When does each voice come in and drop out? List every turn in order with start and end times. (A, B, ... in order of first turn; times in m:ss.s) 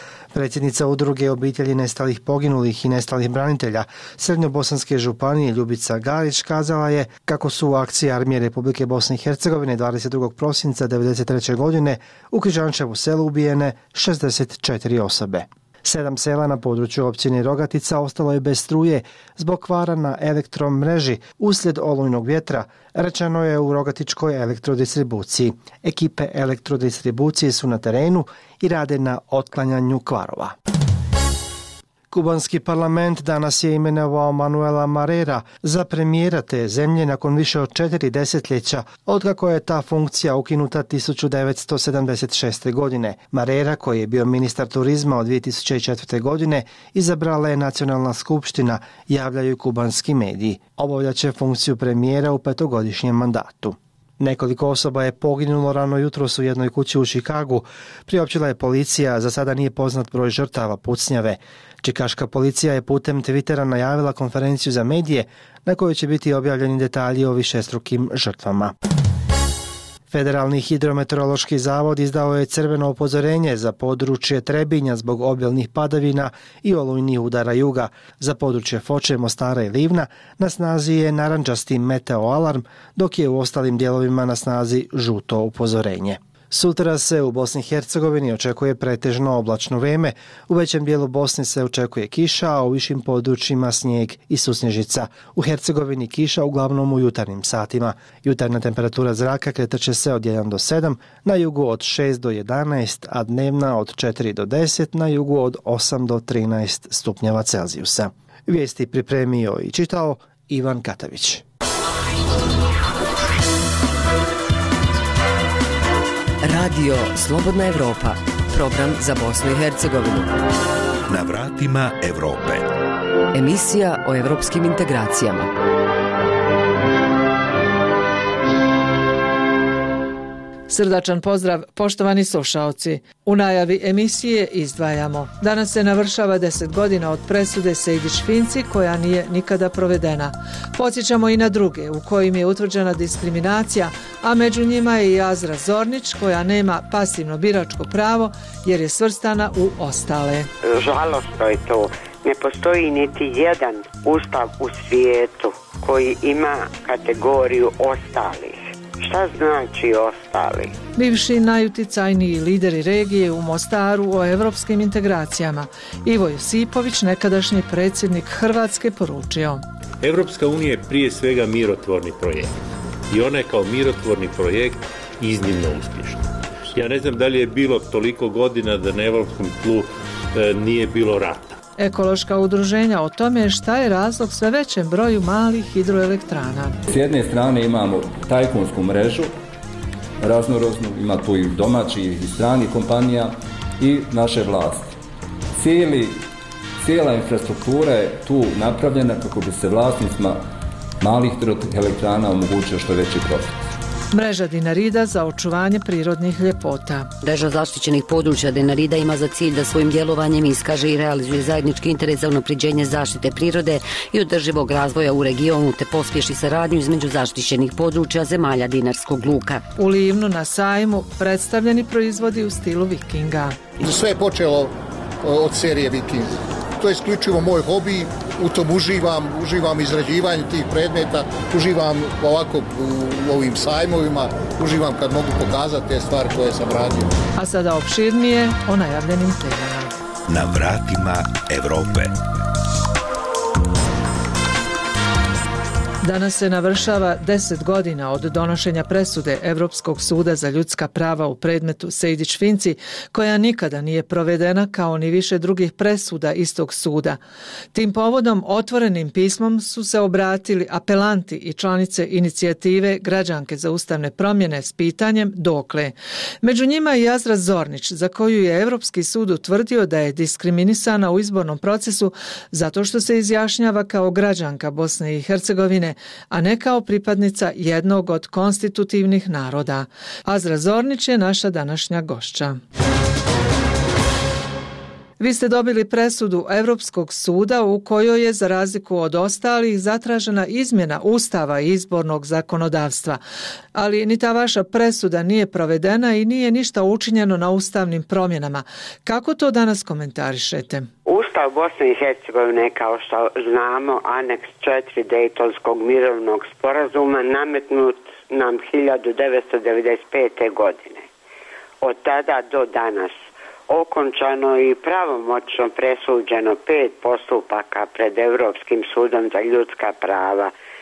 0:00.3-0:30.5 A
0:32.1-1:08.7 A
1:10.1-1:51.4 A
1:56.4-2:00.3 B
2:01.1-2:02.7 C
2:03.3-2:05.5 B
2:10.7-2:30.5 D
2:30.6-2:40.7 E
2:41.0-2:49.6 D
2:50.0-2:52.5 F
2:53.1-3:01.6 F
3:01.8-3:06.8 D
3:06.9-3:09.3 G
3:10.2-3:14.9 G
3:15.5-3:16.2 G
3:16.8-3:20.4 G
3:21.0-3:23.5 G
3:24.1-3:27.1 D
3:27.2-3:39.6 H
3:39.8-3:43.6 D
3:43.8-3:44.7 I
3:45.3-3:46.3 I
3:46.8-3:57.1 I
3:57.4-3:59.9 D
4:00.3-4:02.1 C
4:06.0-4:17.2 D
4:17.7-4:42.6 D
4:45.2-4:53.2 D
4:53.7-5:00.9 D
5:01.0-5:11.1 E
5:11.8-5:13.2 E
5:13.7-5:20.5 E